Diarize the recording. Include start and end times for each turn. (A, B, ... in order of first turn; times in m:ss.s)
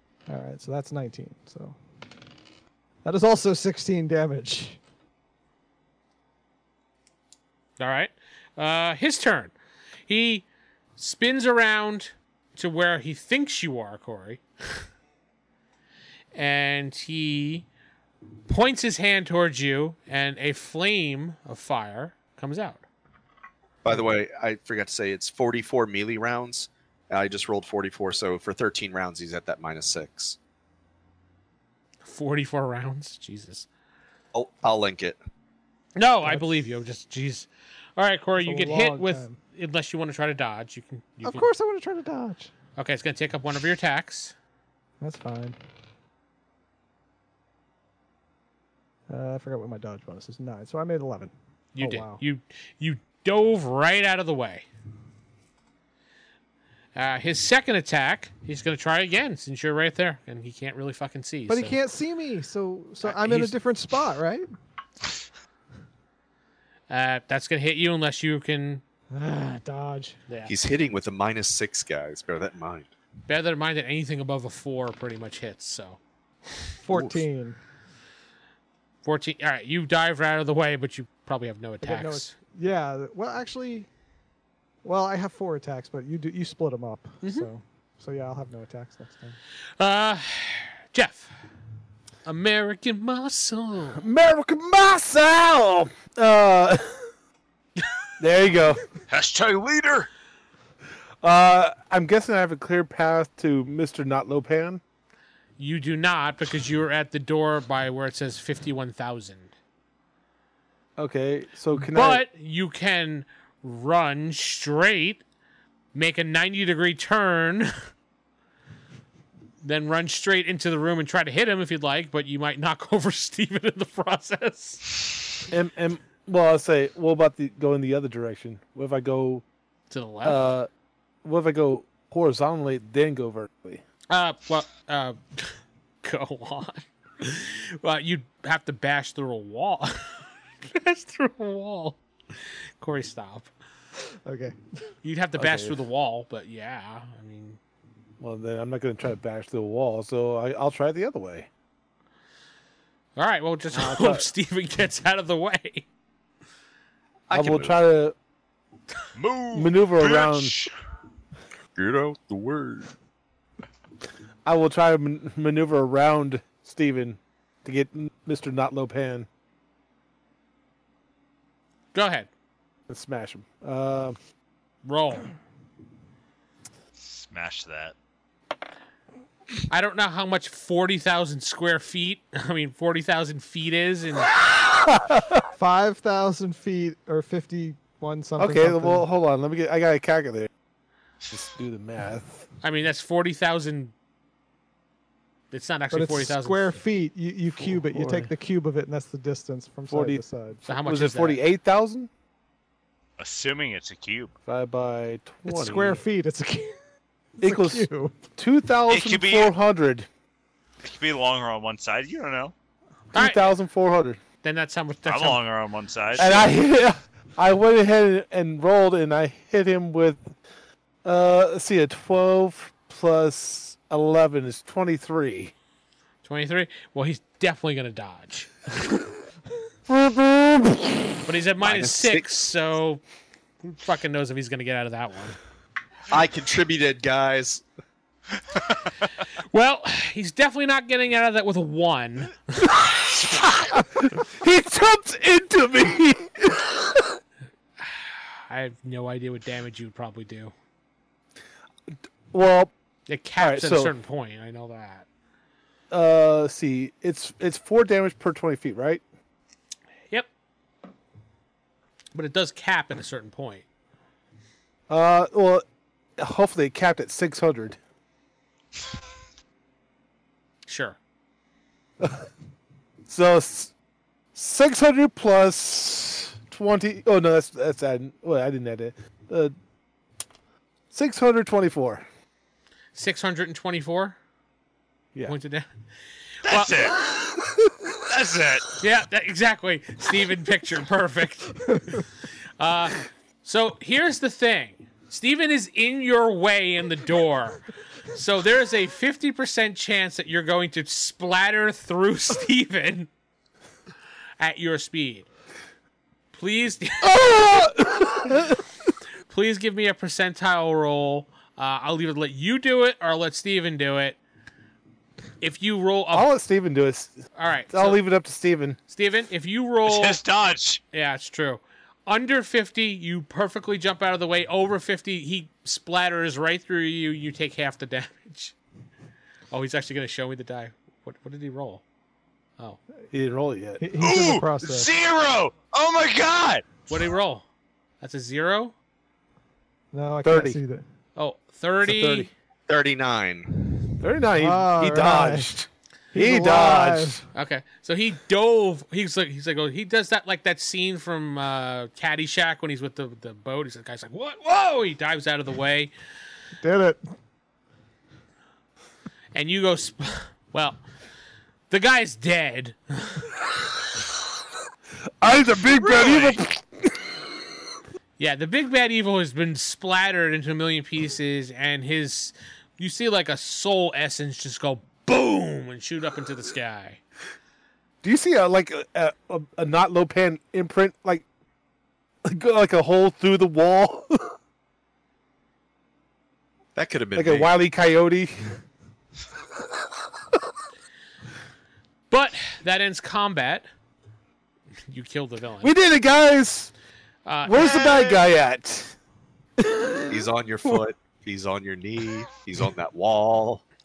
0:00.3-0:01.8 A
0:03.0-0:04.8 A
0:07.8-0:09.5 B
0:10.1-0:10.5 B
0:11.0-0:14.8 B
0:16.3-0:17.7 B
0:18.5-0:22.8 B
0:23.8-0:30.4 C
0:32.0-0:33.7 B
0:34.3-0:35.2 C
0:36.0-0:41.5 B
0:36.2-0:36.6 A
0:38.4-0:39.4 A
0:41.2-0:42.5 A
0:42.8-0:44.4 B
0:45.0-0:45.6 A
0:49.1-0:52.2 A
0:51.8-0:54.7 B
0:57.0-1:01.8 B
1:01.5-1:04.5 A
1:03.0-1:03.6 B
1:06.9-1:08.8 B
1:09.1-1:10.2 A
1:10.5-1:12.9 C
1:13.3-1:16.0 B
1:16.8-1:17.6 A
1:19.0-1:22.3 B
1:21.8-1:23.9 A
1:24.8-1:29.4 A
1:27.2-1:27.5 B
1:29.8-1:31.3 B
1:32.2-1:34.0 B
1:34.0-1:37.1 D
1:38.2-1:38.8 D
1:39.1-1:40.1 E
1:41.2-1:44.8 D
1:45.6-1:49.5 B
1:51.0-1:52.2 D
1:51.9-1:55.2 B
1:55.9-1:57.7 B
1:59.6-2:04.9 B
2:05.5-2:09.4 D
2:09.9-2:10.4 B
2:10.2-2:10.7 D
2:11.2-2:13.8 D
2:14.1-2:23.5 B
2:24.2-2:24.6 A
2:25.0-2:27.6 B
2:25.4-2:25.8 D
2:28.2-2:31.5 D
2:33.2-2:35.9 B
2:33.7-2:34.3 D
2:37.3-2:37.8 C
2:37.3-2:38.2 D
2:39.2-2:40.7 E
2:39.5-2:40.5 D
2:41.8-2:42.9 C
2:44.4-2:49.3 D
2:51.9-2:52.3 B
2:52.9-2:54.2 D
2:54.8-2:55.3 B
2:57.0-2:57.9 E
2:59.7-3:04.4 B
3:04.7-3:05.4 D
3:05.6-3:09.0 A
3:08.4-3:10.5 D
3:11.3-3:12.5 D
3:12.6-3:13.9 B
3:15.5-3:16.8 B
3:15.9-3:20.6 A
3:17.6-3:18.3 D
3:19.9-3:22.1 D
3:20.7-3:21.4 B
3:23.2-3:24.3 E
3:24.5-3:26.0 D
3:25.5-3:26.8 A
3:27.4-3:28.2 A
3:27.4-3:30.1 D
3:28.9-3:29.5 E
3:30.8-3:32.5 E
3:33.1-3:34.2 D
3:33.1-3:33.5 B
3:34.4-3:35.4 B
3:35.1-3:36.5 E
3:36.2-3:40.4 D
3:36.2-3:36.5 B
3:41.0-3:45.5 D
3:46.2-3:49.2 B
3:49.9-3:51.0 D
3:51.2-3:53.0 B
3:51.6-3:52.3 C
3:53.6-3:55.4 B
3:56.1-3:57.6 C
3:59.5-4:02.8 B
4:02.8-4:07.2 D
4:07.8-4:10.5 B
4:12.3-4:12.7 D
4:13.1-4:15.1 B
4:13.4-4:13.9 D
4:15.9-4:19.0 D
4:22.1-4:23.6 B
4:24.9-4:25.6 D
4:26.2-4:27.8 D
4:30.7-4:31.0 B
4:32.0-4:32.3 D
4:33.1-4:33.7 D
4:34.3-4:39.6 D
4:40.9-4:42.0 D
4:43.0-4:44.2 B
4:45.2-4:45.7 B
4:46.4-4:46.9 B
4:46.5-4:47.3 E
4:48.0-4:48.7 E
4:48.8-4:52.1 B
4:52.6-5:03.1 B
5:04.4-5:05.3 B
5:06.3-5:07.2 B
5:07.0-5:08.6 D
5:09.3-5:14.2 B
5:15.4-5:16.3 B
5:16.1-5:17.2 D
5:17.4-5:18.0 B
5:17.7-5:18.8 D
5:18.9-5:20.2 B
5:19.9-5:20.8 E
5:20.9-5:28.6 B
5:29.5-5:31.8 B
5:33.1-5:33.9 D
5:33.8-5:34.9 A
5:34.0-5:36.7 E
5:36.9-5:37.5 B
5:38.0-5:38.8 B
5:39.9-5:40.8 A
5:40.2-5:40.6 D
5:41.2-5:42.3 B
5:41.8-5:42.3 D
5:42.7-5:43.9 C
5:44.0-5:47.2 D
5:44.4-5:45.5 A
5:46.1-5:47.2 A
5:47.3-5:55.9 B
5:56.6-5:57.0 A
5:59.3-6:00.8 B
6:01.7-6:03.3 B
6:05.2-6:07.1 D
6:05.8-6:06.4 E
6:08.2-6:17.0 B
6:18.0-6:21.2 D
6:22.3-6:24.4 D
6:26.8-6:27.5 C
6:27.2-6:28.5 D
6:32.1-6:33.7 B
6:34.9-6:35.7 B
6:35.6-6:36.7 D
6:37.3-6:38.2 B
6:37.4-6:39.0 D
6:39.6-6:40.0 D
6:40.1-6:43.6 C